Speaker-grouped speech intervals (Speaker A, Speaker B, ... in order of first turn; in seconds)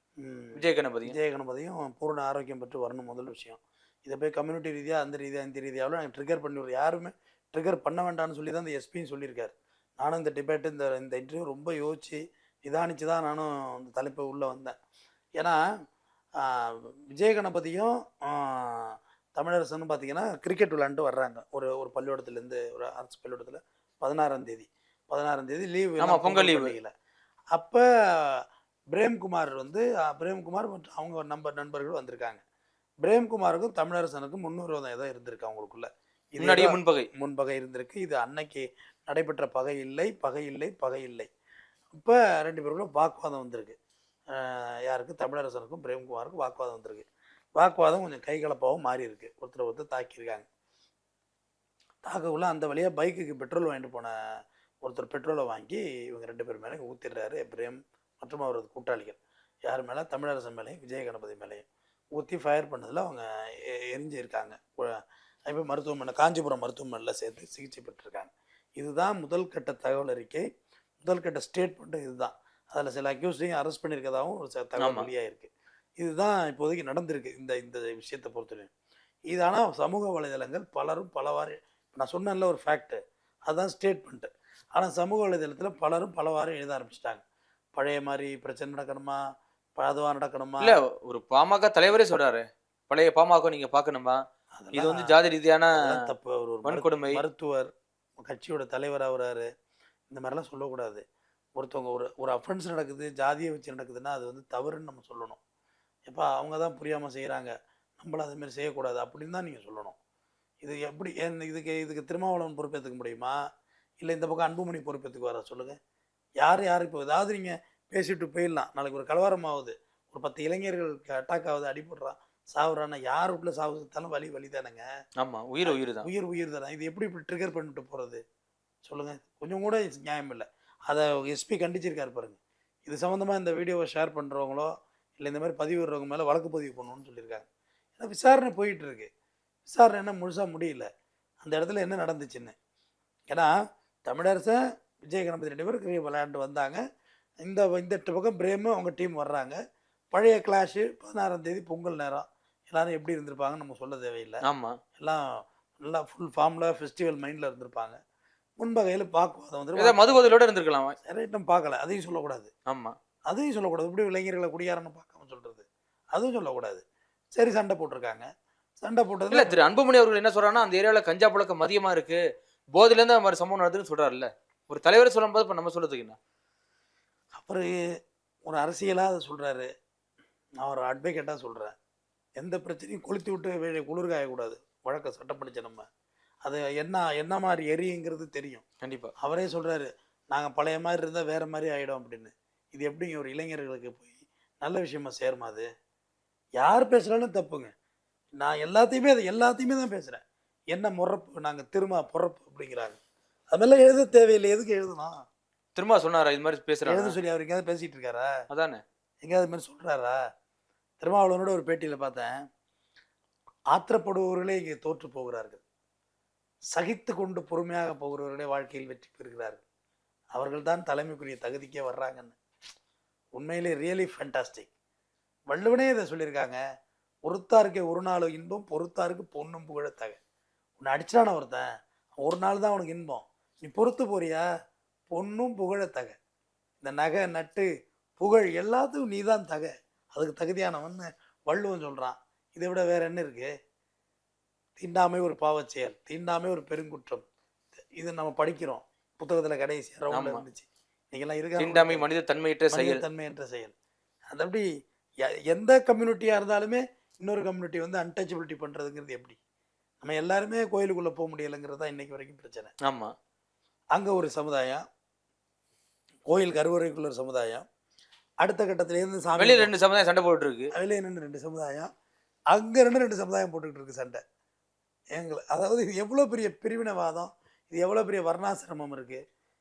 Speaker A: 0.2-14.8, 16.4-26.9, 27.5-32.4, 33.0-41.3, 41.9-43.8, 44.3-50.5, 52.0-54.1, 54.8-61.6, 62.1-64.9, 65.5-70.4, 71.0-78.7, 79.3-87.2, 87.8-89.2, 89.8-90.8, 94.6-95.2, 95.8-97.7, 98.3-99.5, 100.1-101.0, 101.6-105.4, 106.1-110.0, 110.6-113.4, 114.0-115.8, 116.4-124.8, 125.7-128.2, 128.8-137.4, 138.0-139.1, 139.7-140.9, 141.4-142.5, 144.1-144.6, 145.1-146.8, 147.4-149.6, 150.1-154.4, 155.0-155.2, 155.8-158.0, 158.6-160.2, 161.0-162.5, 163.3-166.8, 167.3-168.3, 168.8-169.5, 177.4-177.7, 178.5-179.7, 180.6-181.7, 182.4-185.8, 186.4-188.6, 189.2-195.7, 196.6-197.7, 198.4-200.2, 200.7-203.0, 203.5-205.2, 206.9-208.3, 209.2-210.2, 211.0-212.3, 213.7-215.6, 216.7-219.6, 220.3-222.4, 223.4-224.7, 225.5-226.6, 227.3-230.2, 230.8-231.6, 232.2-234.4, 235.1-236.2, 236.8-237.7, 238.2-243.5, 244.8-247.2, 248.0-252.1, 252.7-253.7, 254.3-254.7, 255.5-259.4, 260.0-262.7, 263.9-264.8, 266.3-267.6, 268.4-269.7, 270.7-271.9, 272.5-274.2, 275.2-279.2
Speaker B: 0.6-1.1, 26.0-26.7, 36.4-37.1, 74.8-75.1, 90.6-94.2, 94.7-95.7, 96.7-97.2, 125.2-126.1, 154.5-154.8, 159.8-160.9, 162.7-162.9, 169.3-172.2, 172.8-176.2, 188.8-189.1, 205.8-207.2, 208.5-208.8, 250.1-250.4, 251.6-253.0, 262.9-263.1, 269.4-270.7